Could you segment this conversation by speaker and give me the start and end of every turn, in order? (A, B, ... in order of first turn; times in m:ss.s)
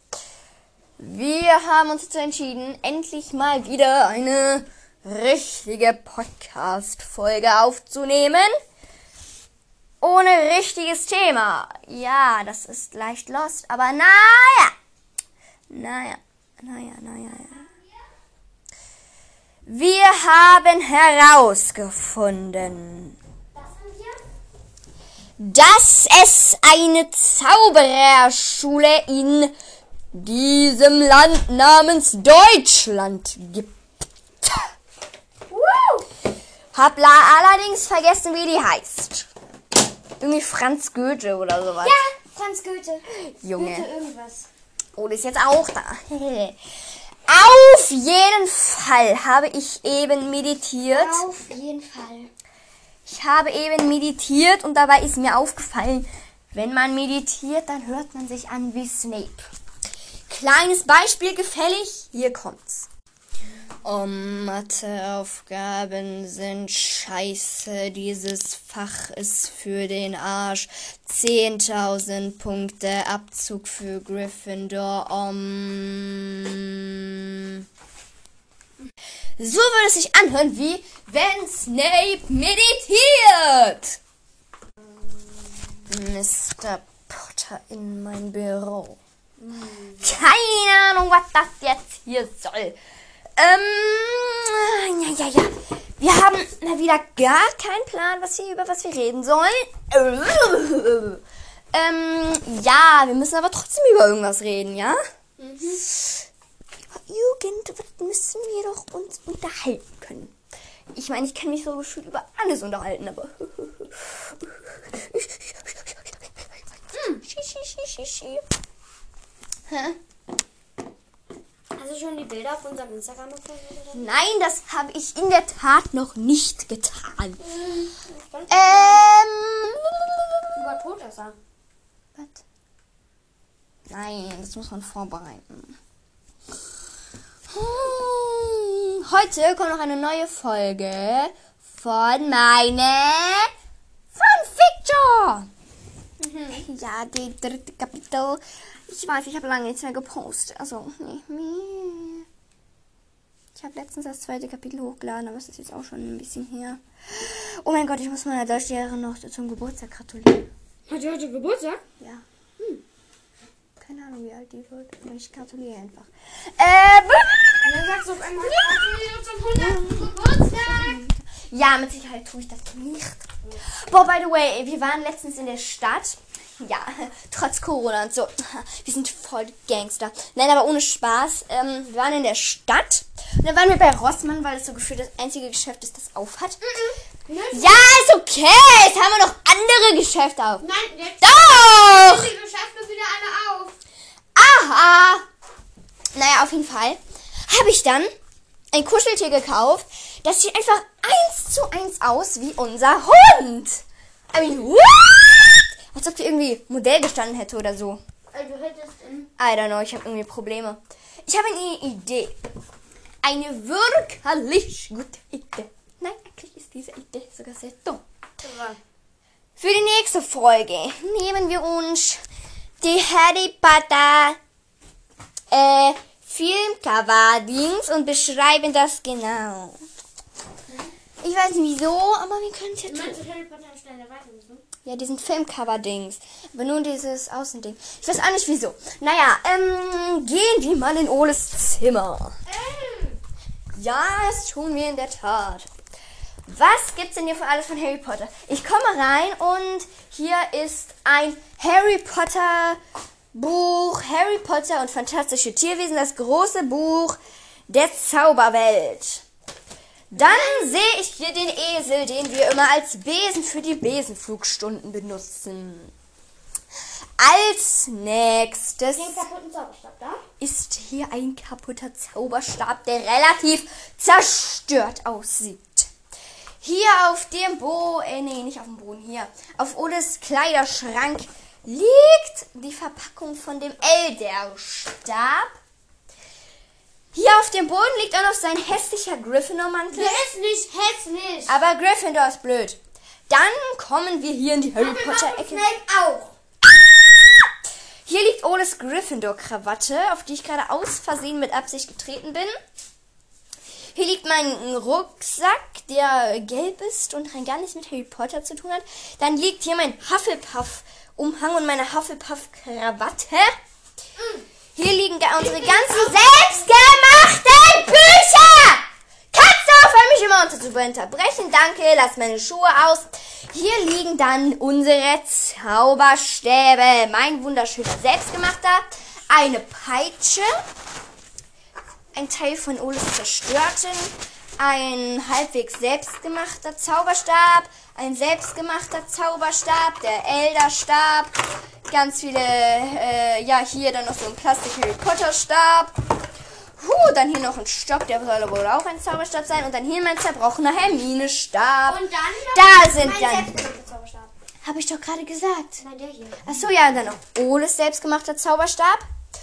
0:01.0-0:08.5 A
0:10.0-0:14.7 A
0:15.7-0:17.7 A
0:19.6-0:23.2 A
0:23.5-0:24.2 B
0:25.4-0:29.5 A
0:30.1-0:33.7 A
0:34.4-0:34.7 A
0:35.5-0:36.1 B
0:36.7-0:39.3 A
0:40.2-0:42.0 A
0:41.8-0:44.5 B
0:43.4-0:43.9 A
0:44.9-0:46.6 A
0:47.3-0:51.2 A
0:50.9-0:52.3 B
0:53.0-0:59.5 A
1:00.3-1:02.9 A
1:03.8-1:17.6 A
1:19.4-1:24.0 A
1:25.9-1:29.0 A
1:29.4-1:30.0 B
1:29.9-1:32.8 A
1:33.4-1:41.2 A
1:41.7-1:45.0 A
1:45.4-1:45.8 B
1:45.6-1:46.2 A
1:46.9-1:50.3 A
1:50.9-1:58.4 A
1:59.7-2:00.0 A
2:01.8-2:04.1 B
2:03.9-2:07.4 A
2:07.5-2:09.0 B
2:08.5-2:10.4 A
2:10.5-2:11.4 B
2:12.2-2:12.4 A
2:13.9-2:15.8 A
2:17.5-2:23.5 A
2:24.1-2:25.5 A
2:26.2-2:26.6 B
2:26.5-2:32.2 A
2:33.5-2:40.5 A
2:40.9-2:41.8 B
2:42.0-2:42.2 A
2:43.8-3:06.8 A
2:47.6-2:51.0 B
3:06.6-3:07.9 B
3:07.5-3:10.6 A
3:10.6-3:13.8 B
3:11.2-3:12.3 A
3:14.3-3:15.2 A
3:16.1-3:18.1 A
3:18.7-3:28.0 A
3:28.3-3:29.3 B
3:29.4-3:32.4 A
3:33.2-3:38.0 A
3:38.4-3:38.8 B
3:39.6-3:42.2 A
3:42.8-3:44.4 A
3:45.5-3:49.8 A
3:51.2-3:53.2 A
3:52.8-3:54.6 B
3:54.8-4:02.4 A
4:02.5-4:03.2 B
4:03.7-4:05.7 A
4:06.4-4:12.8 A
4:13.3-4:17.2 A
4:17.7-4:19.2 A
4:20.1-4:20.6 B
4:20.1-4:25.9 A
4:27.2-4:29.2 A
4:28.9-4:30.2 B
4:30.4-4:35.9 A
4:36.6-4:45.5 A
4:47.1-4:50.3 A
4:49.9-4:51.5 B
4:51.5-4:52.8 A
4:53.3-4:55.7 A
4:54.8-4:56.3 B
4:58.0-5:02.5 A
5:03.9-5:13.5 A
5:14.2-5:14.4 B
5:14.7-5:30.5 A
5:15.4-5:16.5 B
5:32.1-5:41.3 A
5:41.9-5:45.9 A
5:46.8-5:53.5 A
5:51.8-5:54.3 B
5:54.6-5:55.8 A
5:55.8-5:56.6 B
5:56.4-5:59.0 A